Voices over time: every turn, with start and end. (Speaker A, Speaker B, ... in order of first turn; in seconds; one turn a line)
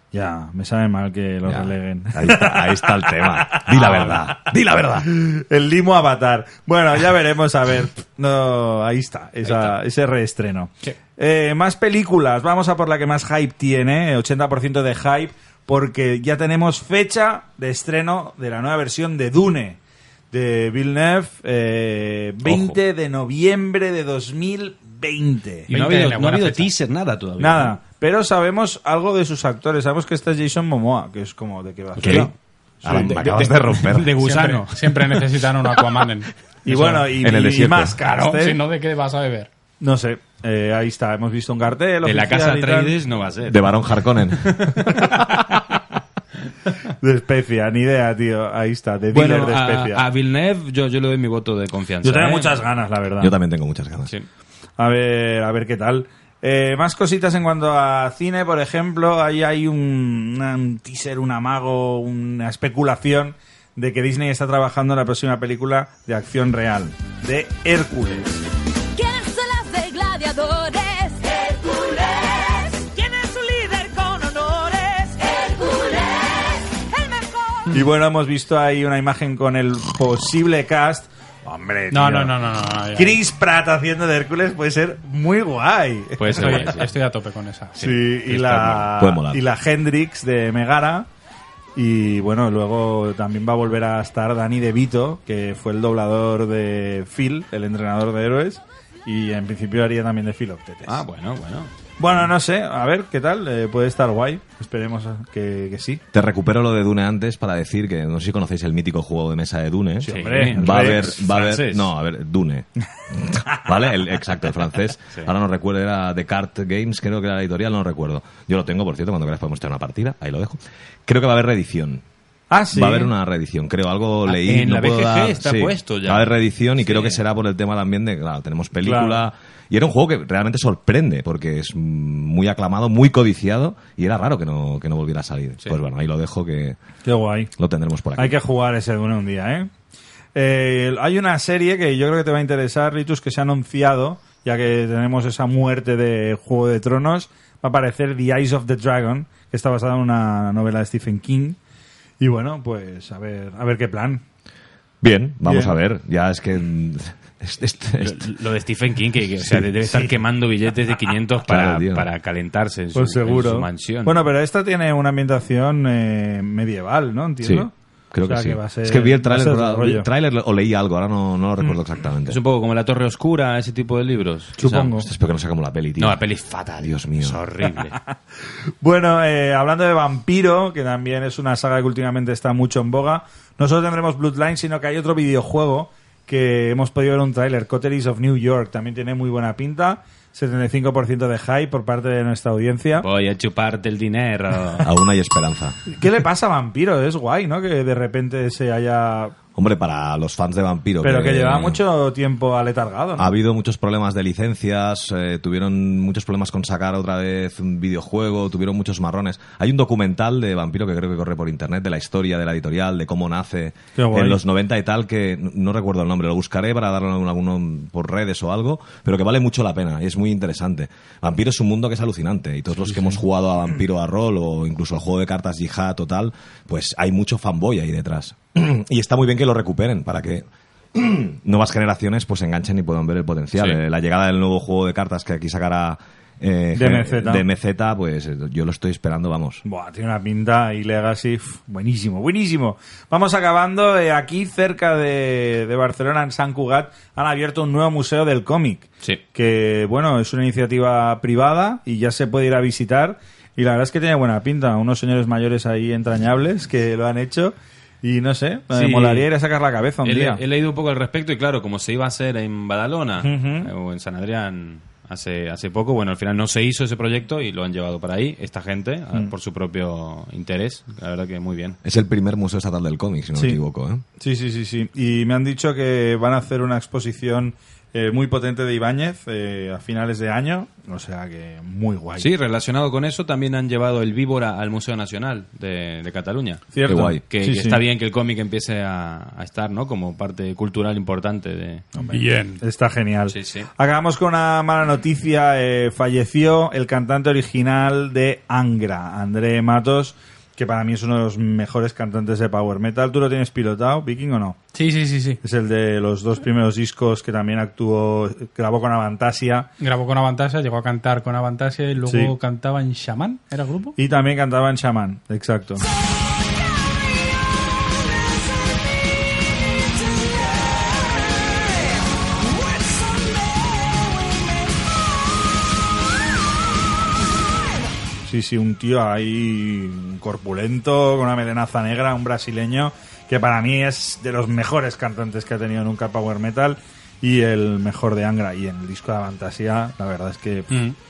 Speaker A: 0.1-4.4
Speaker B: 1.4-5.1
Speaker C: 3.7-4.1
Speaker A: 5.0-19.8
Speaker D: 9.4-9.8
Speaker A: 20.3-25.7
Speaker B: 22.4-22.8
Speaker C: 25.7-26.7
Speaker D: 25.7-27.8
Speaker A: 27.4-32.3
Speaker D: 31.9-32.3
Speaker B: 32.0-32.3
Speaker B: 32.8-34.1
Speaker A: 32.9-33.2
Speaker D: 32.9-35.3
Speaker C: 34.1-37.1
Speaker A: 36.6-38.6
Speaker B: 36.9-38.0
Speaker C: 38.0-39.5
Speaker A: 39.8-42.9
Speaker D: 42.0-45.3
Speaker B: 43.5-44.7
Speaker A: 47.0-50.0
Speaker D: 49.1-52.7
Speaker A: 52.0-53.3
Speaker B: 53.2-54.1
Speaker A: 54.8-68.4
Speaker E: 69.0-77.8
Speaker A: 77.7-82.4
Speaker C: 81.9-83.2
Speaker A: 82.9-86.8
Speaker D: 86.2-86.9
Speaker C: 86.3-87.9
Speaker A: 87.8-91.1
Speaker D: 87.8-88.9
Speaker B: 88.9-89.4
Speaker A: 91.8-101.0
Speaker D: 100.9-102.3
Speaker A: 102.0-106.0
Speaker B: 106.1-122.0
Speaker A: 110.0-111.2
Speaker D: 110.1-111.9
Speaker A: 122.5-123.1
Speaker B: 122.7-136.8
Speaker D: 124.3-127.2
Speaker A: 128.8-129.2
Speaker A: 137.1-137.5
Speaker B: 137.6-138.4
Speaker A: 138.2-139.7
Speaker A: 140.3-151.6
Speaker A: 152.2-154.2
Speaker B: 155.0-158.3
Speaker A: 155.4-155.8
Speaker D: 158.0-164.3
Speaker B: 159.4-159.7
Speaker B: 161.4-162.1
Speaker A: 162.9-167.7
Speaker B: 167.4-172.4
Speaker A: 168.2-170.1
Speaker D: 172.3-175.1
Speaker A: 174.6-175.1
Speaker B: 175.0-176.2
Speaker D: 176.0-178.0
Speaker B: 176.8-177.4
Speaker A: 178.8-193.1
Speaker D: 193.0-194.9
Speaker B: 194.8-195.8
Speaker A: 195.9-199.3
Speaker B: 199.6-201.8
Speaker A: 201.0-203.3
Speaker B: 203.2-239.6
Speaker A: 214.0-214.4
Speaker D: 233.6-233.8
Speaker A: 236.8-237.4
Speaker A: 239.7-260.4
Speaker D: 258.7-259.3
Speaker D: 260.0-271.8
Speaker A: 263.2-263.7
Speaker B: 271.8-274.0
Speaker A: 274.2-282.3
Speaker D: 282.2-291.9
Speaker A: 286.7-287.8
Speaker B: 286.9-287.2
Speaker A: 291.9-304.6
Speaker C: 292.1-292.6
Speaker D: 293.3-293.7
Speaker C: 304.7-305.4
Speaker A: 305.4-309.7
Speaker C: 309.8-314.0
Speaker A: 312.1-312.3
Speaker A: 314.0-315.9
Speaker A: 328.3-340.9